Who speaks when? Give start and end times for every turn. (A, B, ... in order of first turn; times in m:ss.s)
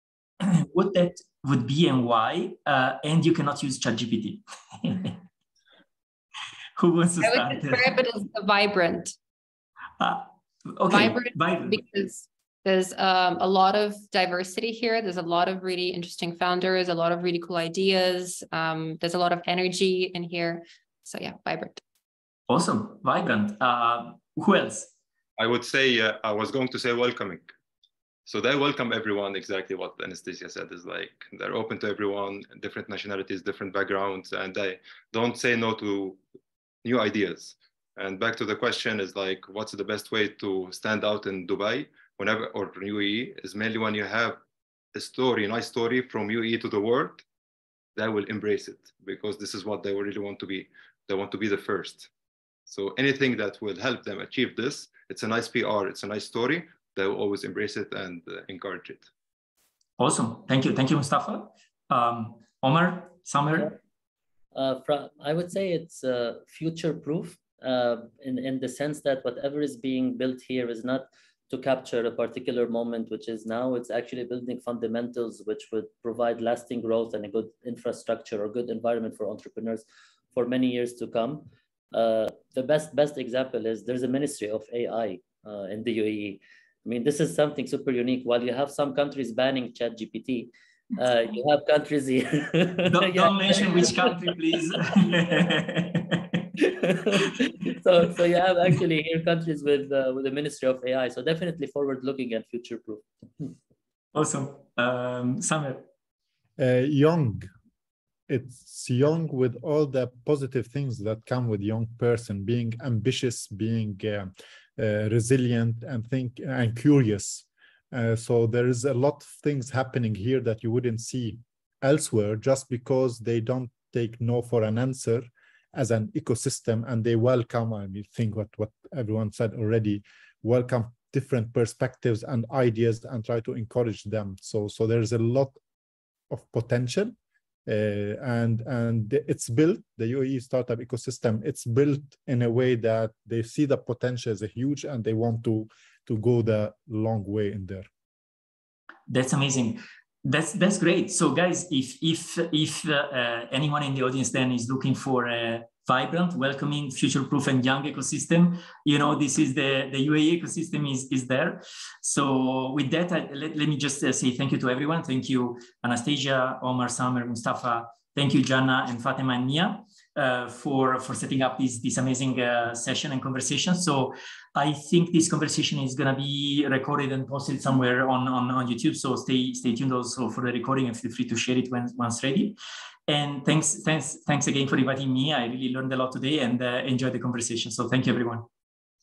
0:00.4-0:05.2 A
0:06.8-0:08.0 A
0:07.2-0:09.2 B
0:10.0-0:11.8 A
0:10.9-0:21.8 B
0:22.5-0:24.9 A
0:25.4-0:27.5 C
0:28.3-0:36.2 C
0:36.8-0:44.4 C
0:44.9-0:47.2 C
0:48.0-0:52.1 C
0:52.7-0:59.1 C
1:00.0-1:03.8 A
1:04.6-1:35.4 D
1:32.9-1:36.4 A
1:36.6-1:43.0 D
1:44.1-1:45.8 A
1:46.6-1:47.5 E
1:48.3-2:15.6 E
2:16.3-2:17.1 E
2:17.7-2:27.9 E
2:29.1-3:08.5 A